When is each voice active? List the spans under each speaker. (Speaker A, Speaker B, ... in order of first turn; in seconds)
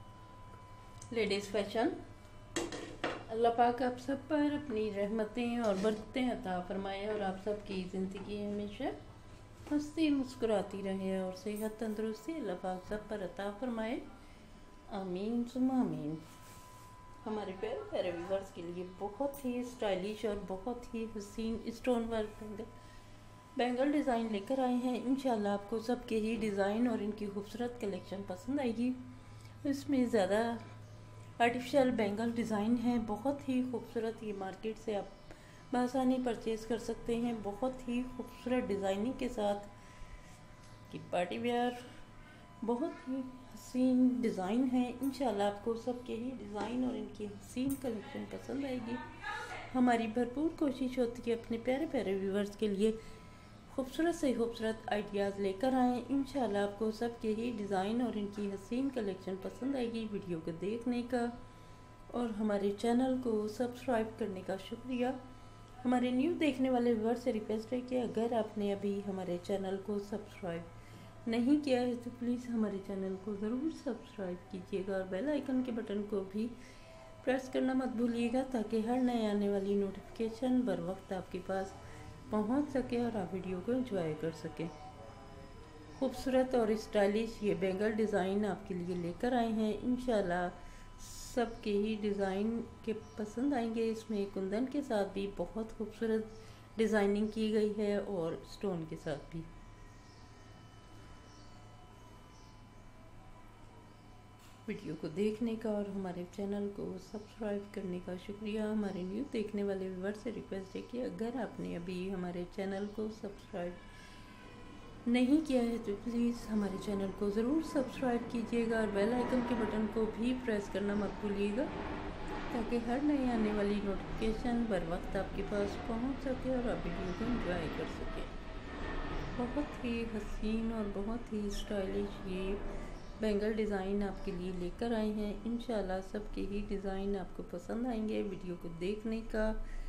Speaker A: 1.1-1.9, 3.3-8.9, 9.7-14.0, 14.9-16.2, 17.2-22.7, 23.6-29.0, 29.6-30.7, 31.4-35.2, 35.7-39.7, 40.9-41.9, 42.6-49.0, 49.6-53.0, 53.7-61.3, 62.1-65.2, 65.8-70.7, 71.2-76.5, 77.2-81.8, 82.3-84.7, 86.0-99.5, 104.7-113.8, 115.0-121.7, 122.5-128.3, 129.3-132.6, 133.2-139.6